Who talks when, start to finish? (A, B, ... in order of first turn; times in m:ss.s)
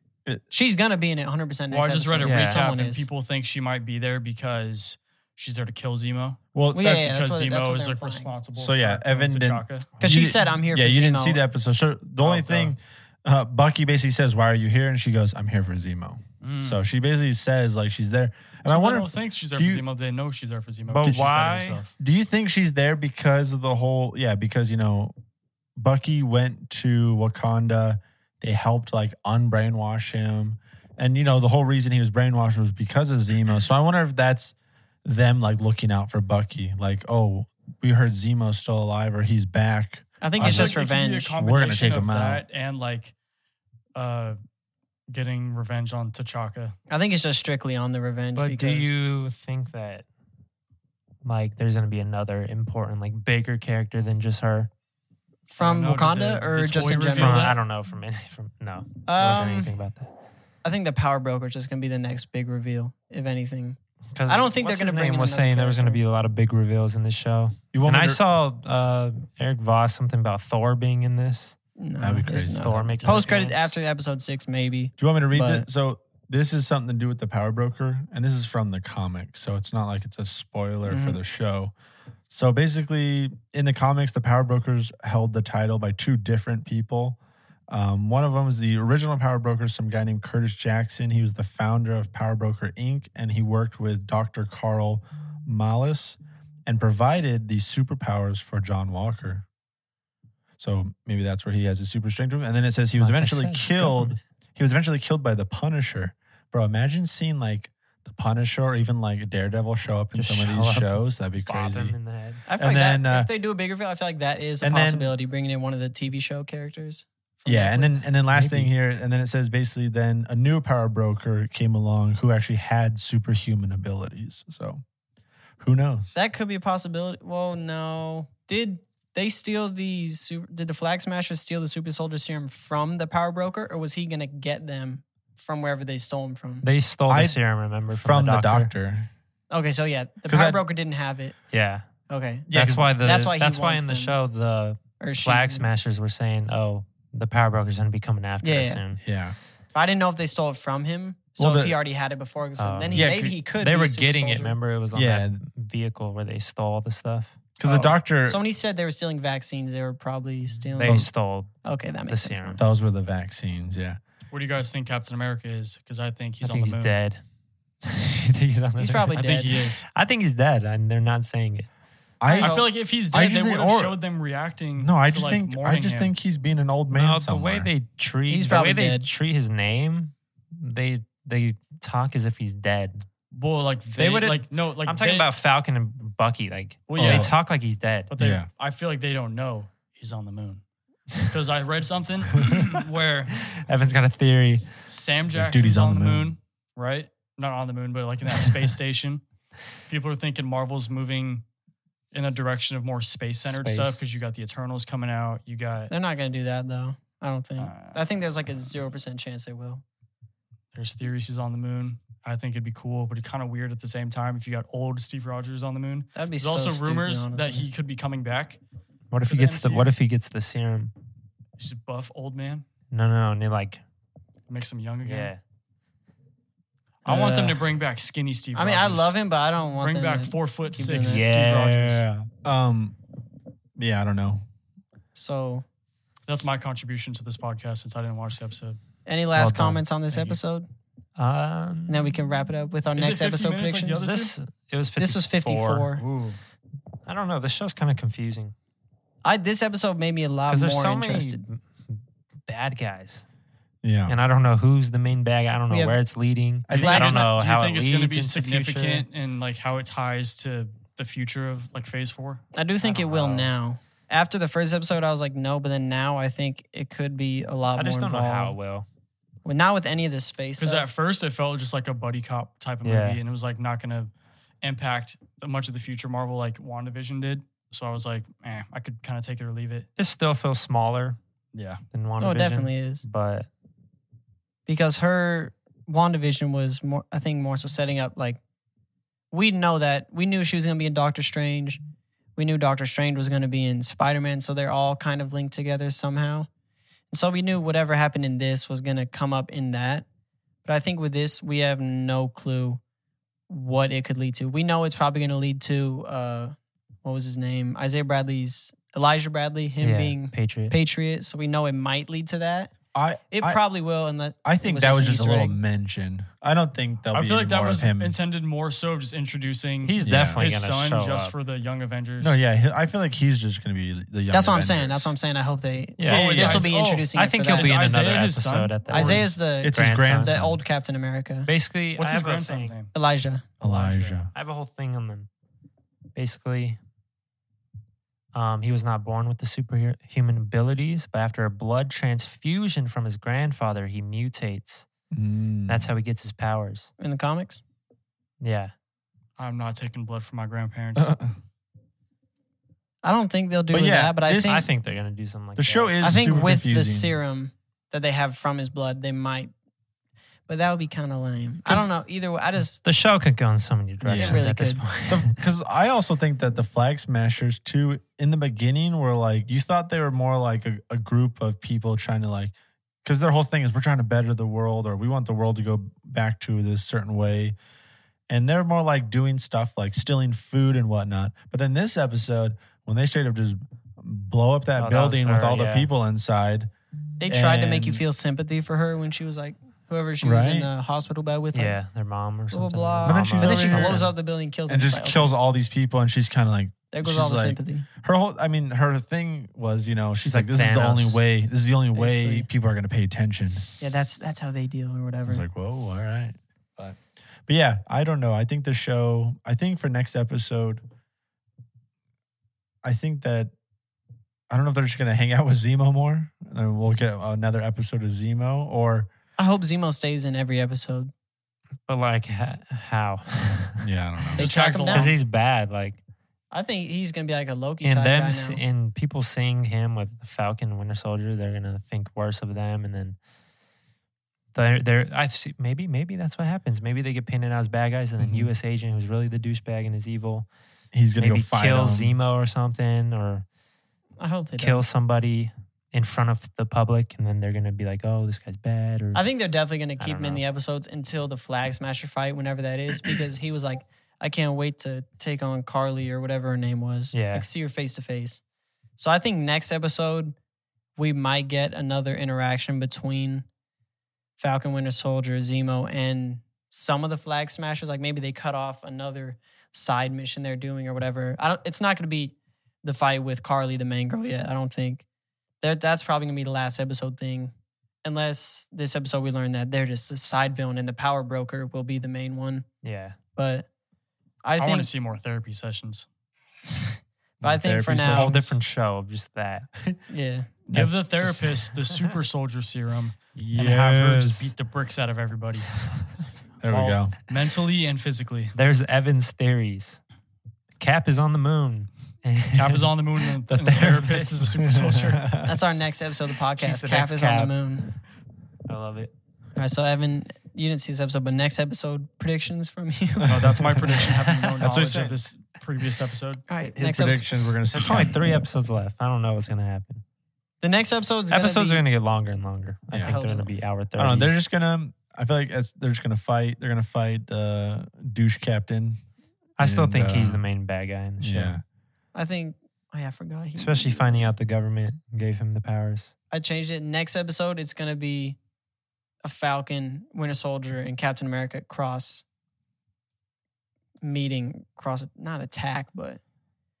0:00.5-0:03.0 A
0:01.7-0:09.9 B
0:02.2-0:02.6 C
0:06.5-0:07.1 D
0:06.7-0:08.3 A
0:08.6-0:19.8 D
0:10.0-0:11.4 A
0:12.2-0:12.7 B
0:16.4-0:16.8 B
0:18.6-0:21.9 B
0:20.9-0:21.8 C
0:22.0-0:25.1 D
0:25.8-0:34.5 D
0:35.0-0:40.8 D
0:40.2-0:41.3 A
0:40.4-0:43.1 B
0:41.3-0:42.4 D
0:43.9-0:44.4 B
0:45.1-0:46.8 B
0:46.9-0:48.9 A
0:48.5-0:50.0 C
0:51.2-0:54.7 C
0:55.5-0:57.5 A
0:55.6-0:57.6 B
0:56.9-1:00.1 C
0:59.0-0:59.7 A
1:00.6-1:06.0 A
1:04.1-1:11.6 C
1:07.7-1:08.2 D
1:11.8-1:15.6 A
1:12.0-1:13.2 D
1:12.5-1:13.7 C
1:15.0-1:21.7 D
1:20.9-1:21.2 A
1:22.3-1:27.2 D
1:27.7-1:39.4 D
1:40.6-1:52.0 D
1:43.0-1:44.2 C
1:50.1-1:52.4 C
1:52.5-1:58.1 A
1:52.6-1:53.3 D
1:54.6-1:55.1 D
1:57.4-2:04.8 D
1:58.3-1:58.7 C
2:05.6-2:06.1 D
2:06.1-2:16.6 A
2:16.6-2:18.7 C
2:17.1-2:17.4 D
2:17.9-2:19.1 D
2:19.5-2:21.3 A
2:20.3-2:20.6 D
2:21.5-2:21.8 C
2:22.1-2:22.5 A
2:22.5-2:22.9 D
2:22.5-2:29.0 C
2:23.0-2:24.2 A
2:25.0-2:25.7 A
2:28.4-2:28.8 A
2:29.0-2:29.4 D
2:29.7-2:34.6 A
2:31.4-2:31.8 D
2:32.6-2:37.3 C
2:32.9-2:33.4 D
2:34.9-2:35.4 D
2:37.6-2:38.4 D
2:37.6-2:41.1 A
2:40.8-2:41.1 B
2:40.8-2:41.5 C
2:41.6-2:42.6 A
2:42.1-2:42.6 C
2:42.6-2:44.0 D
2:44.3-2:47.0 B
2:46.4-2:47.2 C
2:47.8-2:51.7 C
2:48.8-2:49.5 A
2:49.1-2:49.8 B
2:52.2-2:54.0 D
2:52.3-2:52.6 A
2:52.3-2:56.1 B
2:54.8-2:57.7 D
2:56.9-3:03.0 C
2:58.3-2:59.1 A
3:03.3-3:05.3 B
3:04.0-3:08.1 C
3:06.9-3:07.3 B
3:07.0-3:07.3 D
3:08.1-3:10.6 B
3:08.2-3:08.5 D
3:11.2-3:13.4 B
3:13.4-3:14.7 C
3:14.9-3:19.2 B
3:15.3-3:16.4 D
3:19.8-3:21.4 B
3:22.1-3:25.9 B
3:23.4-3:24.0 C
3:25.9-3:29.8 A
3:27.6-3:28.0 B
3:30.7-3:38.6 B
3:36.1-3:37.7 A
3:39.1-3:40.9 C
3:39.2-3:39.9 B
3:41.6-3:42.6 B
3:42.9-3:43.8 C
3:44.5-3:45.3 B
3:45.0-3:45.4 C
3:47.0-3:47.6 A
3:47.0-3:49.2 B
3:48.5-3:51.2 A
3:49.8-3:52.1 B
3:50.9-3:52.3 C
3:52.4-3:52.9 D
3:53.8-3:54.4 D
3:55.1-3:55.6 A
3:56.3-3:58.8 B
3:59.0-4:00.7 A
3:59.4-3:59.8 C
4:00.1-4:00.4 B
4:01.2-4:02.1 C
4:01.9-4:04.0 A
4:03.0-4:04.3 B
4:03.9-4:06.0 C
4:05.0-4:06.0 A
4:06.0-4:06.4 B
4:07.0-4:08.5 C
4:09.2-4:11.4 A
4:10.5-4:13.2 C
4:13.8-4:14.1 D
4:14.1-4:19.0 C
4:15.7-4:16.0 A
4:16.7-4:17.1 D
4:16.7-4:17.3 A
4:16.8-4:23.5 B
4:22.5-4:28.6 A
4:27.8-4:28.8 C
4:29.4-4:30.9 A
4:30.6-4:39.9 B
4:32.8-4:33.2 C
4:40.0-4:41.2 C
4:41.5-4:41.8 B
4:41.9-4:43.5 C
4:42.2-4:43.0 A
4:44.7-4:48.4 A
4:49.3-4:51.8 A
4:52.4-4:56.5 A
4:57.1-5:00.0 A
5:00.6-5:02.8 A
5:03.5-5:12.7 A
5:09.8-5:10.8 C
5:12.9-5:13.6 D
5:13.3-5:15.6 A
5:14.4-5:18.2 D
5:17.1-5:22.4 B
5:19.8-5:21.3 C
5:20.0-5:20.4 D
5:22.2-5:25.1 D
5:24.3-5:27.7 A
5:26.0-5:30.4 C
5:26.1-5:29.4 B
5:26.1-5:26.6 D
5:28.9-5:31.5 A
5:29.6-5:30.6 D
5:31.4-5:32.7 C
5:32.0-5:32.9 B
5:32.9-5:33.5 A
5:33.6-5:34.3 D
5:33.6-5:34.2 B
5:34.3-5:35.3 C
5:36.1-5:36.8 C
5:38.3-5:44.9 C
5:45.1-5:45.9 D
5:45.7-5:46.9 C
5:47.0-5:47.6 A
5:48.4-5:48.7 C
5:49.4-5:51.1 B
5:51.0-5:51.3 D
5:53.0-5:54.7 A
5:53.7-5:54.7 D
5:54.4-5:56.3 C
5:55.6-5:57.1 D
5:56.0-5:59.5 A
6:00.5-6:02.8 A
6:02.8-6:05.4 C
6:04.0-6:04.4 D
6:04.1-6:04.8 A
6:05.1-6:12.5 D
6:13.0-6:17.6 D
6:18.3-6:26.7 D
6:24.8-6:25.9 C
6:27.2-6:31.8 A
6:27.3-6:28.0 D
6:30.2-6:30.7 D
6:31.5-6:34.0 C
6:32.5-6:35.3 A
6:33.0-6:34.1 D
6:34.7-6:43.6 D
6:36.9-6:37.9 A
6:40.2-6:41.2 C
6:41.9-6:42.5 A
6:43.8-6:45.4 A
6:45.2-6:50.8 D
6:52.8-6:53.5 D
6:54.5-6:59.1 D
6:59.4-7:01.1 A
7:01.9-7:03.8 C
7:03.8-7:04.4 D
7:04.4-7:05.2 B
7:04.4-7:05.2 A
7:04.9-7:06.0 C
7:06.5-7:08.6 A
7:07.8-7:13.2 C
7:14.5-7:20.5 C
7:18.2-7:18.5 D
7:20.9-7:22.1 D
7:21.2-7:23.4 C
7:24.2-7:24.8 A
7:24.6-7:29.2 C
7:29.1-7:38.4 A
7:30.0-7:30.4 C
7:37.1-7:37.4 C
7:39.0-7:40.3 A
7:41.0-7:43.4 A
7:44.4-7:55.0 A
7:55.6-7:57.5 A
7:58.0-8:02.6 A
8:02.8-8:03.2 C
8:03.4-8:03.7 A
8:04.4-8:04.9 A
8:04.6-8:06.0 B
8:07.4-8:08.3 D
8:07.4-8:08.6 A
8:08.0-8:09.7 C
8:10.1-8:10.5 A
8:10.6-8:15.8 B
8:10.7-8:11.4 D
8:11.2-8:12.0 C
8:13.4-8:14.3 C
8:13.5-8:14.5 D
8:16.6-8:17.1 D
8:16.7-8:18.5 B
8:18.5-8:20.0 C
8:20.8-8:24.6 C
8:22.5-8:25.3 B
8:24.7-8:25.5 D
8:25.4-8:27.9 A
8:26.6-8:27.6 C
8:28.7-8:29.1 C
8:29.6-8:33.6 A
8:33.2-8:36.4 B
8:34.6-8:35.2 D
8:36.5-8:37.4 A
8:36.7-8:38.4 D
8:37.7-8:40.0 C
8:40.6-8:41.8 A
8:41.3-8:44.4 C
8:42.9-8:43.2 D
8:43.0-8:43.5 A
8:44.0-8:49.0 D
8:49.6-8:51.6 C
8:49.6-8:50.4 D
8:51.2-8:51.6 D
8:52.1-8:54.3 A
8:53.6-8:56.1 C
8:56.3-8:58.4 A
8:59.2-9:02.2 A
9:04.0-9:06.2 A